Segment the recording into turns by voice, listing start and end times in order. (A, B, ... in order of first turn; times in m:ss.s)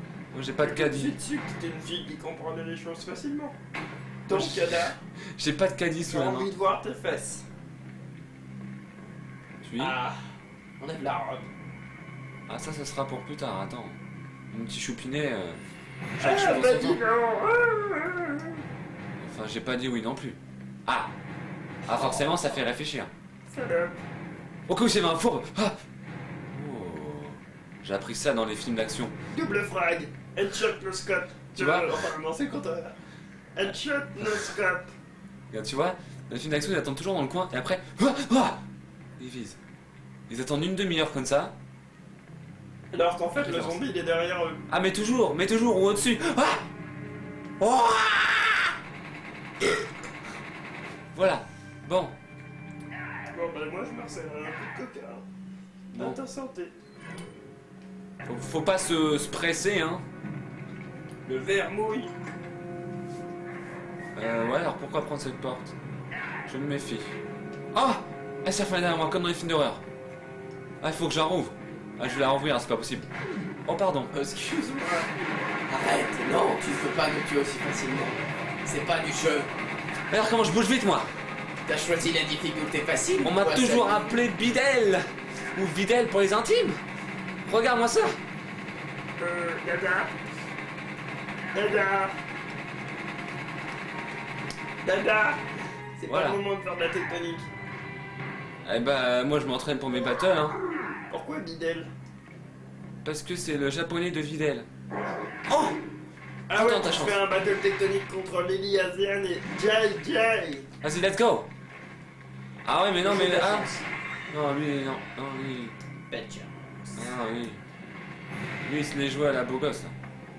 0:00.3-0:01.2 A
0:00.6-0:03.6 B
0:04.2-0:05.0 B
0:04.3-0:06.5 A
0:06.1-0:07.4 B
0:09.6-0:10.0 A
0:09.8-0:11.5 C
0:12.5-0:14.0 A
0:14.5-0:15.6 A
0:16.2-0:17.0 A
0:16.2-0:18.6 B
0:19.2-0:21.1 A
0:21.8-0:23.1 A
0:21.9-0:22.4 C
0:23.5-0:24.0 B
0:24.7-0:25.8 A
0:26.5-0:29.1 A
0:29.3-0:33.0 B
0:31.6-0:32.0 A
0:33.5-0:34.9 B
0:35.5-0:38.6 A
0:39.2-0:39.6 A
0:40.3-0:41.5 A
0:42.9-0:44.6 B
0:43.4-0:43.8 A
0:44.7-0:46.6 A
0:47.6-0:48.7 A
0:51.1-0:52.1 A
0:53.3-0:55.2 B
0:55.9-0:56.2 A
0:55.9-0:56.7 B
0:58.2-1:00.0 A
1:01.2-1:02.1 B
1:04.1-1:05.7 A
1:06.5-1:07.1 A
1:07.7-1:09.8 A
1:10.8-1:13.1 A
1:13.6-1:14.1 A
1:14.1-1:15.1 C
1:15.7-1:19.5 C
1:20.1-1:21.1 A
1:21.6-1:24.2 C
1:23.2-1:25.0 A
1:25.5-1:26.8 A
1:27.4-1:28.2 A
1:29.2-1:30.1 B
1:31.5-1:32.1 B
1:34.8-1:35.4 B
1:36.0-1:37.5 B
1:36.1-1:36.4 A
1:38.6-1:40.6 A
1:41.1-1:41.9 B
1:43.0-1:44.7 A
1:45.5-1:45.8 A
1:46.5-1:50.6 B
1:46.5-1:47.2 A
1:50.8-1:51.5 A
1:52.6-1:53.7 A
1:53.0-1:53.8 C
1:54.3-1:55.7 A
1:56.1-1:57.1 C
1:57.0-1:57.6 A
1:58.6-1:59.9 A